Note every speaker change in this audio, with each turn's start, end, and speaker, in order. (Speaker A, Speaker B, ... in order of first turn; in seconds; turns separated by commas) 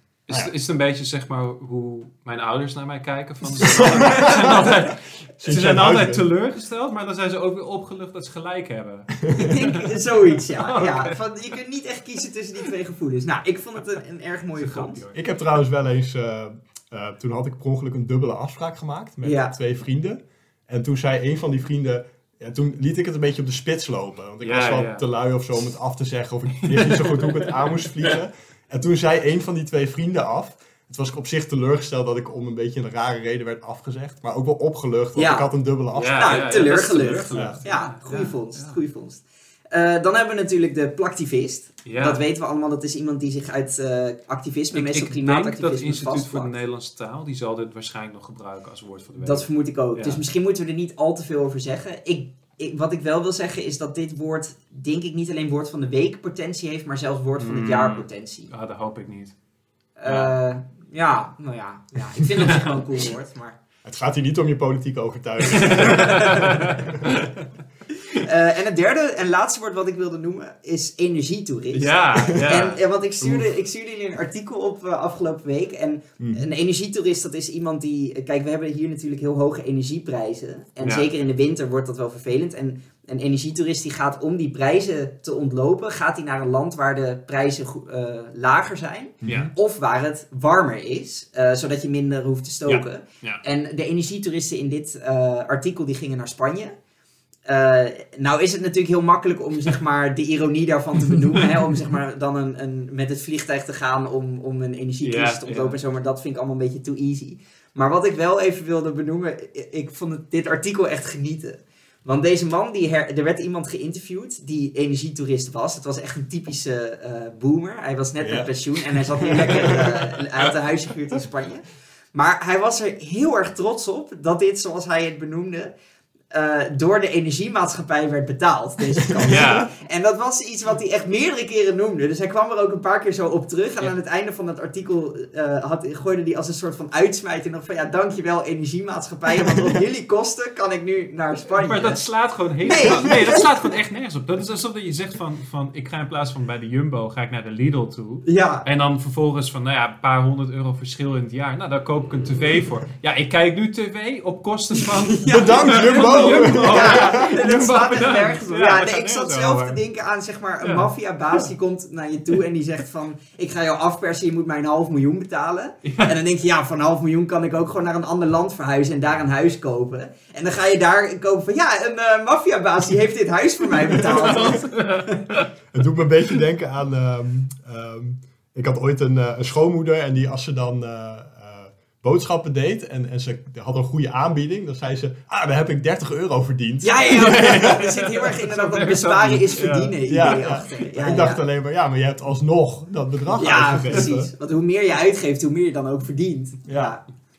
Speaker A: 0.3-11.2, Speaker B: 3.6-6.2, Speaker B: 9.2-9.5, Speaker C: 9.3-15.0, Speaker A: 14.6-15.2, Speaker B: 15.1-36.5, Speaker C: 19.2-19.5, Speaker A: 24.4-25.0, Speaker A: 26.6-28.1, Speaker C: 35.1-35.5, Speaker A: 35.9-38.8, Speaker C: 36.1-46.5, Speaker B: 37.3-37.6, Speaker A: 41.8-42.2, Speaker A: 44.7-50.2, Speaker C: 49.1-58.5, Speaker A: 57.4-59.3, Speaker C: 60.0-63.6, Speaker A: 60.0-60.3, Speaker A: 62.4-62.7, Speaker B: 63.8-67.2, Speaker A: 65.5-67.4, Speaker C: 68.1-96.7, Speaker A: 71.7-72.8, Speaker B: 72.2-72.5, Speaker B: 76.2-76.5, Speaker A: 80.8-81.1, Speaker B: 89.2-89.5, Speaker A: 89.2-89.5, Speaker A: 92.7-93.4, Speaker C: 97.5-125.7, Speaker A: 105.0-105.8, Speaker B: 118.2-120.1, Speaker C: 126.3-142.0, Speaker A: 129.2-129.7, Speaker A: 141.6-159.8, Speaker C: 142.6-143.5, Speaker C: 148.2-148.7, Speaker C: 155.1-175.2, Speaker B: 155.2-157.4, Speaker A: 160.6-161.5, Speaker A: 165.8-166.2, Speaker A: 173.9-175.5, Speaker B: 175.7-187.7, Speaker C: 186.8-191.4, Speaker A: 187.1-190.0, Speaker B: 190.1-194.3, Speaker C: 193.3-197.0, Speaker B: 196.7-197.0